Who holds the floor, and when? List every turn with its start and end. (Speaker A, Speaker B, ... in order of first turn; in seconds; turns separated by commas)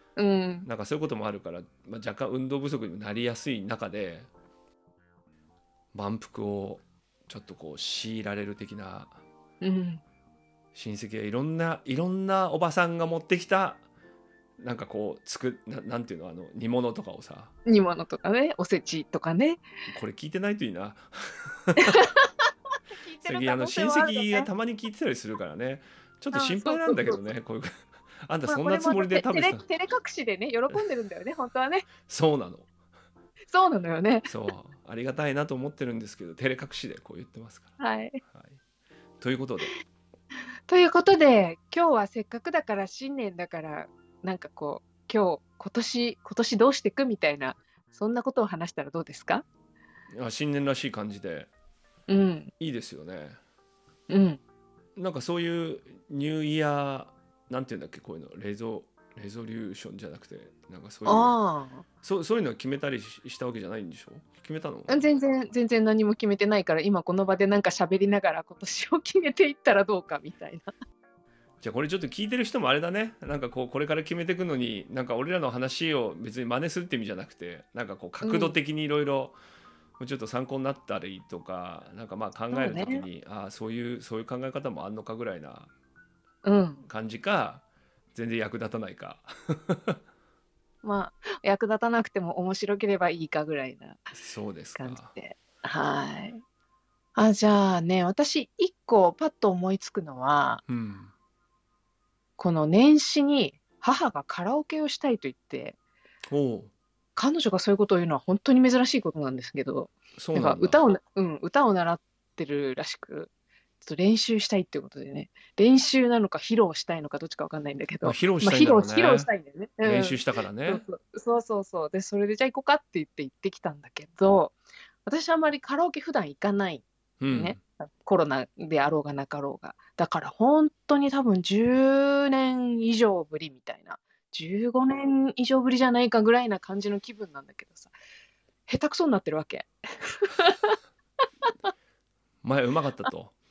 Speaker A: 0.2-0.7, Speaker B: 0.6-4.3, Speaker B: 5.9-9.1, Speaker A: 9.6-10.0, Speaker B: 10.7-13.8, Speaker B: 14.6-17.5, Speaker A: 17.7-19.6, Speaker B: 19.9-22.0, Speaker A: 21.8-22.3, Speaker A: 22.9-24.5, Speaker B: 23.2-27.7, Speaker A: 26.3-27.2, Speaker B: 28.2-29.6, Speaker A: 28.5-31.9, Speaker B: 32.0-32.7, Speaker A: 33.5-34.3, Speaker B: 34.3-37.7, Speaker A: 37.8-38.2, Speaker B: 38.3-38.6, Speaker B: 39.2-39.7, Speaker A: 40.7-49.5, Speaker B: 50.1-51.5, Speaker A: 52.1-52.5, Speaker B: 52.6-53.4, Speaker A: 54.1-54.4, Speaker B: 55.0-61.3, Speaker A: 61.0-61.8, Speaker B: 62.0-65.0, Speaker A: 64.9-70.7, Speaker B: 71.6-79.4, Speaker A: 78.2-78.5, Speaker B: 80.0-85.7, Speaker A: 82.5-83.0, Speaker A: 86.4-86.8, Speaker B: 86.8-90.0, Speaker A: 90.8-94.1, Speaker B: 94.1-95.1, Speaker A: 94.8-96.4, Speaker A: 97.1-100.6, Speaker B: 100.7-101.1, Speaker A: 102.4-105.8, Speaker B: 106.3-106.7, Speaker A: 107.2-113.3, Speaker B: 110.2-110.8, Speaker A: 113.8-137.9, Speaker B: 118.0-119.3, Speaker B: 119.8-120.8, Speaker B: 127.2-127.6, Speaker A: 138.7-140.8, Speaker B: 142.4-143.3